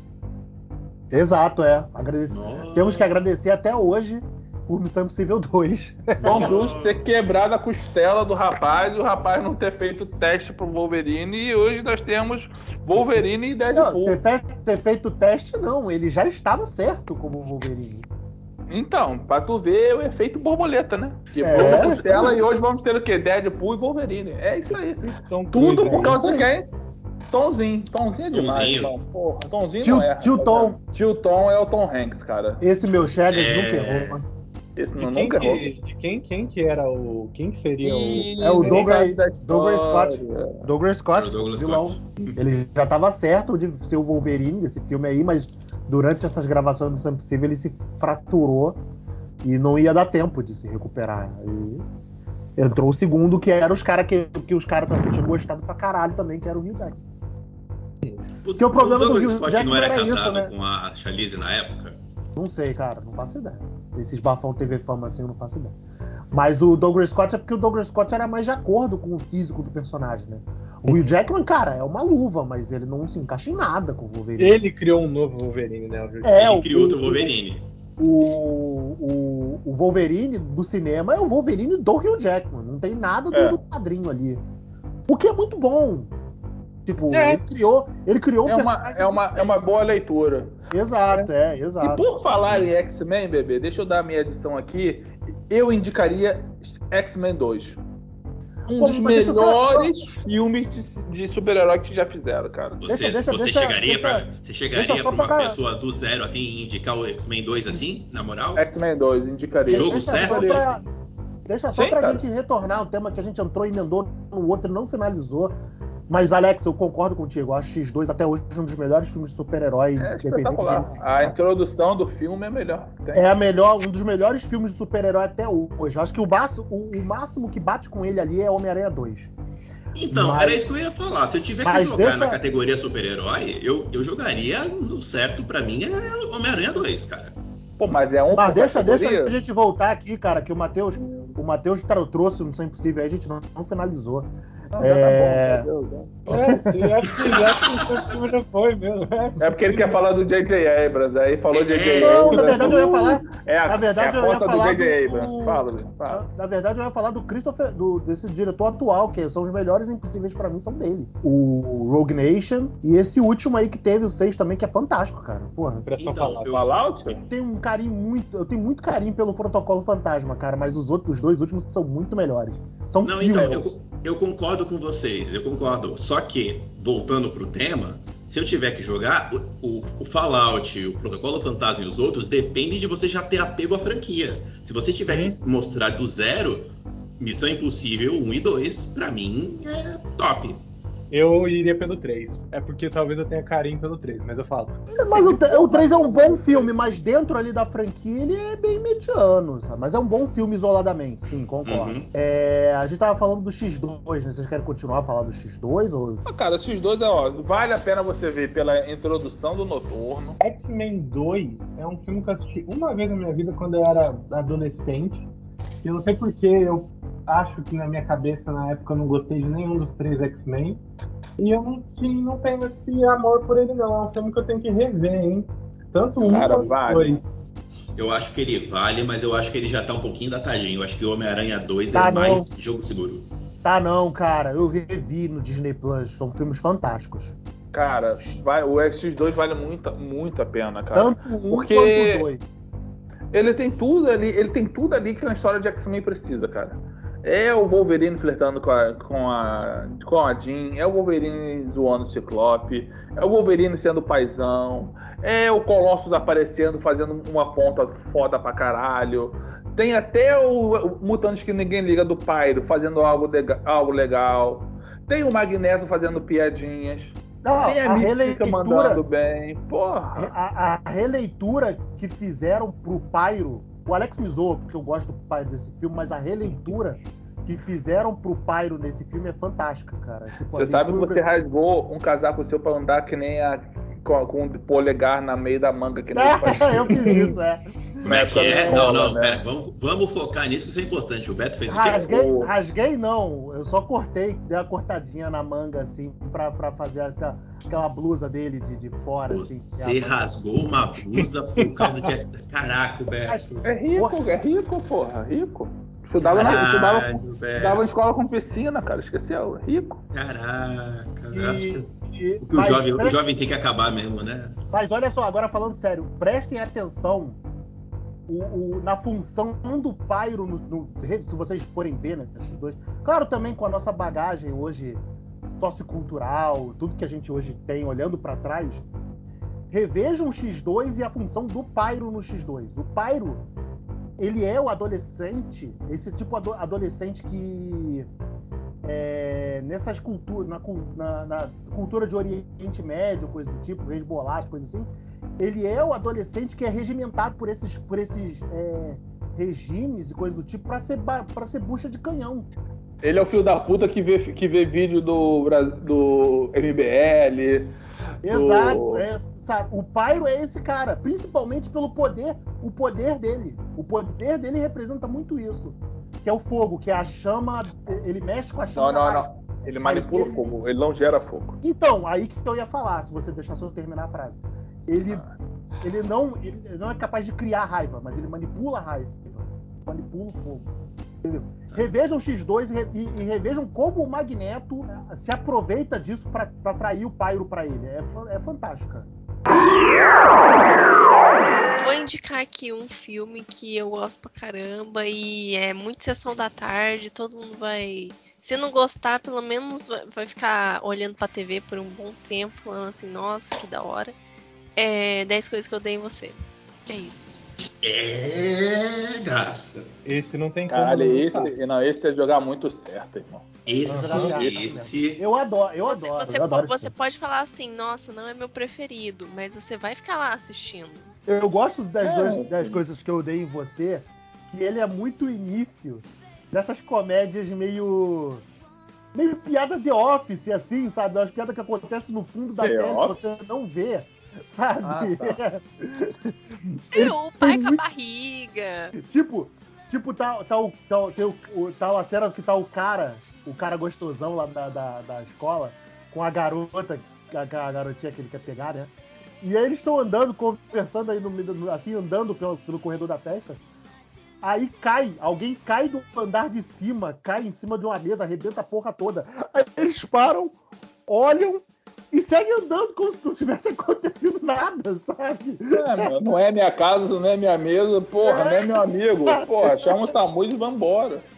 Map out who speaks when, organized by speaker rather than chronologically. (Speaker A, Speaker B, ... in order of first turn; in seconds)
Speaker A: 1.1-6.6, 13.7-18.1, 21.4-22.4, 25.8-26.5, 29.8-30.8, 32.6-34.2, 38.4-48.8, 49.4-51.9, 52.6-57.0, 58.6-60.5, 62.4-65.8, 66.3-74.6, 76.2-77.3, 78.0-84.4, 85.1-86.1, 86.9-89.6, 90.7-92.2, 98.7-99.9, 102.9-105.6, 109.7-110.8, 111.5-115.6, 116.1-121.4, 123.1-129.3, 130.1-130.7, 131.6-132.4, 138.3-145.7, 146.3-146.9, 151.9-165.9, 167.1-173.7, 194.9-206.2, 231.9-232.5, 233.6-237.4, 240.9-242.7, 267.4-269.0, 270.1-281.2, 286.1-289.0, 291.7-300.3, 303.2-304.2, 306.3-306.6, 311.3-313.2, 314.7-317.4, 318.3-325.0, 325.6-328.9, 329.7-333.5, 334.2-338.1, 338.8-352.5, 358.2-369.3, 369.8-370.5, 371.6-375.2, 375.8-380.7, 381.2-389.1, 413.9-416.9, 421.3-428.4, 429.1-437.8, 439.0-453.7, 454.4-460.6, 461.1-466.1, 468.2-470.1
Speaker B: 2.3-3.1, 6.2-7.0, 21.6-22.0, 28.3-28.9, 33.3-34.2, 41.1-42.4, 58.4-62.0, 76.3-77.7, 102.8-108.7, 109.7-110.8, 129.9-137.4, 147.1-148.1, 151.5-152.8, 166.0-166.9, 173.0-190.6, 201.7-202.1, 226.2-226.5, 228.0-233.3, 288.0-292.1, 299.3-303.5, 306.2-307.8, 310.1-311.9, 312.4-314.6, 407.8-409.9, 413.7-415.2
Speaker C: 6.2-14.2, 18.7-26.7, 27.3-32.6, 34.8-35.6, 37.8-40.7, 83.3-83.6, 87.1-87.4, 88.5-90.6, 91.8-97.8, 98.7-102.8, 108.6-110.7, 111.7-112.2, 120.0-123.3, 137.8-139.4, 144.8-146.4, 149.4-156.3, 166.5-167.2, 173.3-173.6, 195.3-196.7, 206.3-210.4, 226.2-227.2, 237.7-242.3, 243.3-270.3, 280.5-287.2, 288.0-289.4, 291.9-292.5, 303.6-310.0, 353.0-357.7, 358.2-359.1, 368.8-371.6, 375.1-375.3, 410.7-413.5, 414.1-414.6, 422.0-422.8, 432.6-433.2, 434.8-435.4, 465.7-471.3
Speaker D: 24.7-26.4, 35.0-38.8, 74.4-76.5, 146.3-150.0, 165.8-166.6, 185.1-185.4, 191.1-196.2, 210.4-215.3, 215.8-220.8, 221.4-227.3, 286.9-287.3, 410.1-411.5, 413.9-414.3
Speaker E: 391.8-404.1, 404.8-406.4, 406.9-407.4, 415.8-421.1, 436.9-438.9